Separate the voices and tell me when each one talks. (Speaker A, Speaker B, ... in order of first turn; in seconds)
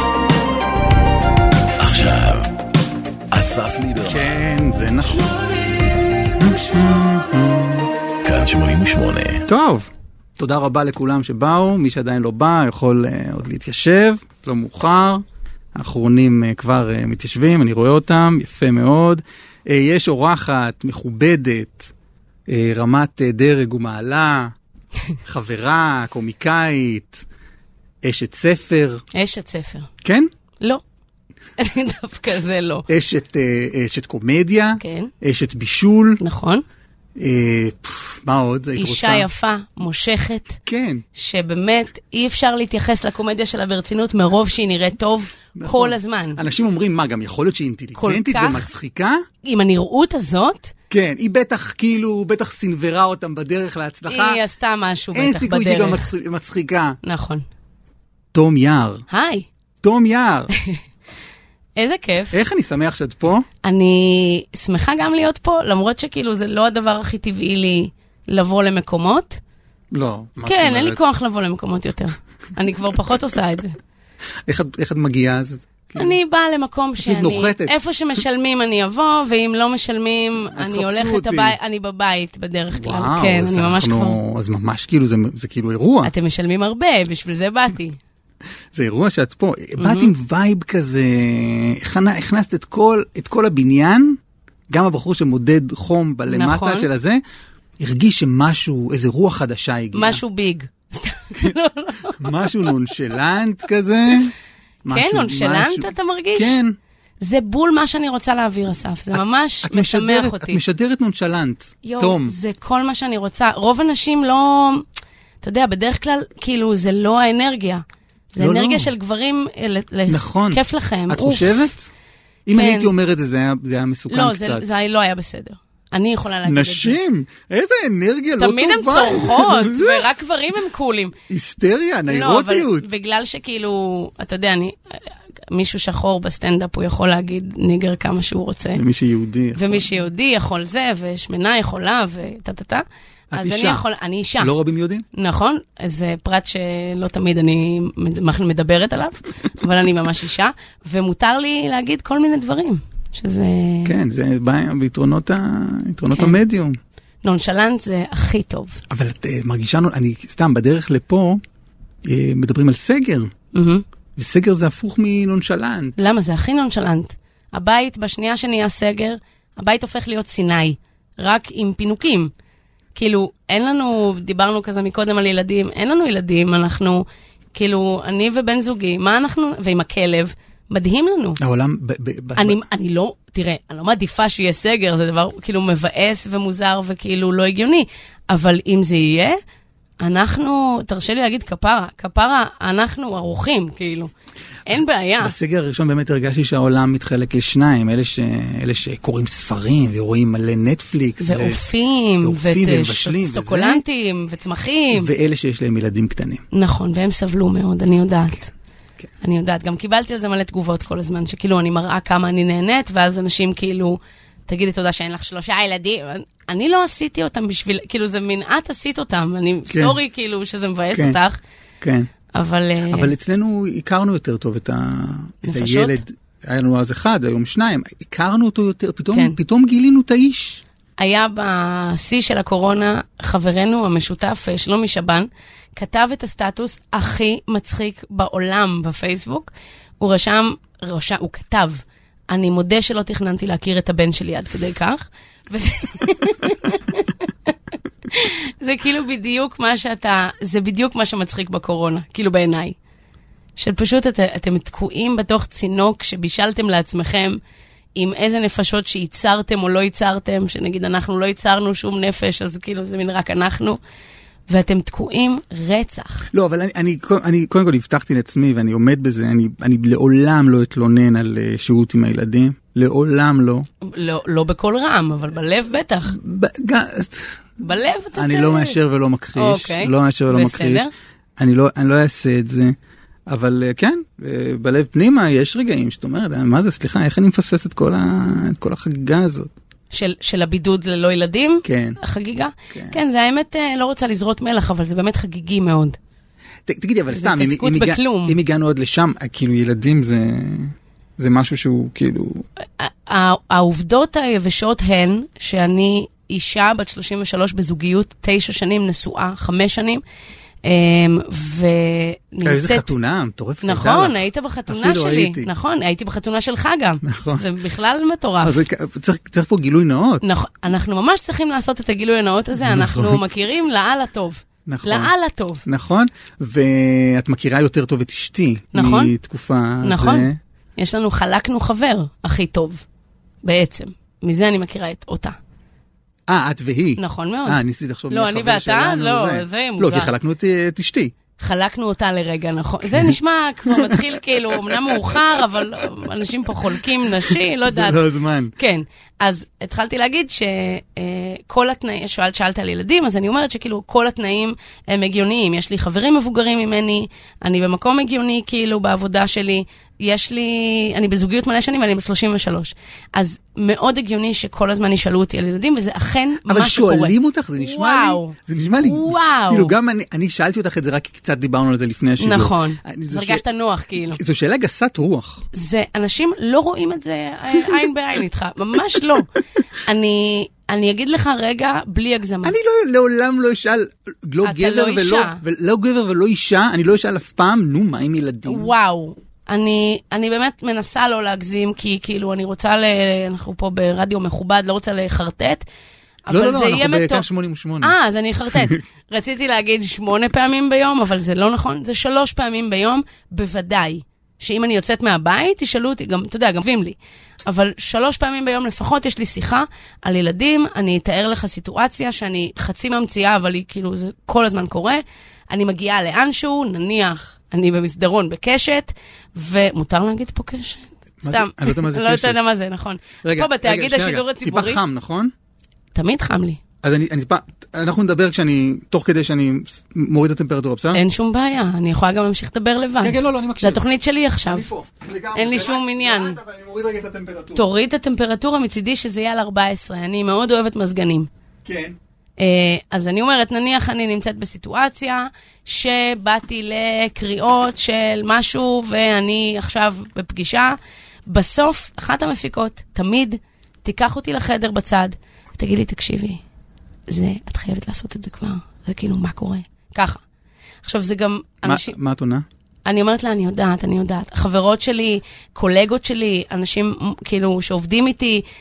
Speaker A: 1.8-2.5, 3.3-4.4, 8.2-9.4
Speaker B: 4.0-5.6, 6.4-7.9, 9.5-21.9, 22.5-24.5, 25.2-27.2, 28.0-29.0, 30.0-30.3, 32.9-36.2, 37.2-39.3, 40.7-41.0, 45.5-49.2, 50.9-54.4, 55.1-57.0, 58.3-59.0, 59.8-60.5, 62.3-63.5, 69.9-71.0, 74.5-76.2, 77.0-77.8, 80.5-81.6, 82.7-86.1, 88.7-94.2, 94.7-97.2, 97.8-100.2, 102.2-104.3, 104.8-106.8, 109.2-112.3, 118.4-118.9, 120.1-121.9, 122.5-124.7, 126.5-130.1, 131.3-132.9, 138.8-139.9, 143.3-143.8, 144.4-145.1, 153.9-156.8, 158.9-161.4, 162.0-163.3, 164.2-166.1, 181.4-182.6, 195.2-201.6, 202.2-203.8, 204.9-206.4, 219.7-220.0, 221.8-222.1, 222.9-230.6, 266.3-273.7, 276.1-277.4, 278.1-280.9, 281.4-282.8, 283.3-289.5, 291.6-292.0, 292.7-293.0, 296.7-302.5, 312.4-315.5, 317.1-317.5, 318.4-320.3, 322.6-323.2, 324.7-325.1, 325.6-330.4, 336.3-341.1, 342.9-345.2, 347.3-348.5, 366.5-373.4, 374.1-375.4, 377.6-377.9, 382.4-388.7, 396.3-398.0, 421.2-422.4, 423.2-425.3, 426.8-431.0, 433.0-433.8, 434.5-437.6, 441.6-442.0, 461.6-462.4
Speaker C: 29.1-29.9, 31.6-32.9, 34.8-35.1, 36.2-36.6, 38.8-40.6, 41.1-46.4, 48.0-48.7, 49.4-50.7, 54.1-56.1, 57.0-57.5, 59.1-59.5, 60.5-60.8, 61.8-62.4, 63.6-69.4, 70.4-73.8, 76.0-84.2, 86.0-88.0, 89.8-90.1, 96.3-96.9, 99.9-102.8, 104.9-106.6, 107.2-110.6, 111.8-114.8, 115.4-121.7, 122.5-122.9, 124.1-127.0, 128.4-131.2, 132.1-138.8, 139.6-144.5, 145.1-153.9, 156.1-156.4, 157.2-158.8, 163.5-163.8, 166.0-172.3, 172.9-181.4, 182.4-189.4, 190.0-194.1, 194.7-195.3, 201.2-205.1, 206.5-208.5, 209.2-221.4, 222.3-223.1, 225.4-226.0, 229.1-229.4, 231.0-247.5, 248.1-252.8, 253.6-257.4, 257.9-263.8, 264.5-266.3, 273.8-276.2, 277.6-278.8, 279.4-280.9, 289.9-296.0, 297.1-298.4, 302.8-310.0, 310.6-312.9, 313.6-318.6, 320.2-325.6, 328.7-329.1, 329.8-332.8, 333.4-335.4, 337.0-340.1, 341.4-348.0, 348.6-369.8, 372.2-374.2, 375.5-379.3, 379.8-382.6, 384.4-385.4, 388.4-395.7, 396.3-397.3, 397.8-424.8, 425.9-426.6, 430.9-434.7, 435.4-436.4, 437.6-441.3, 442.4-456.4, 457.1-460.2, 460.8-461.9, 462.9-468.4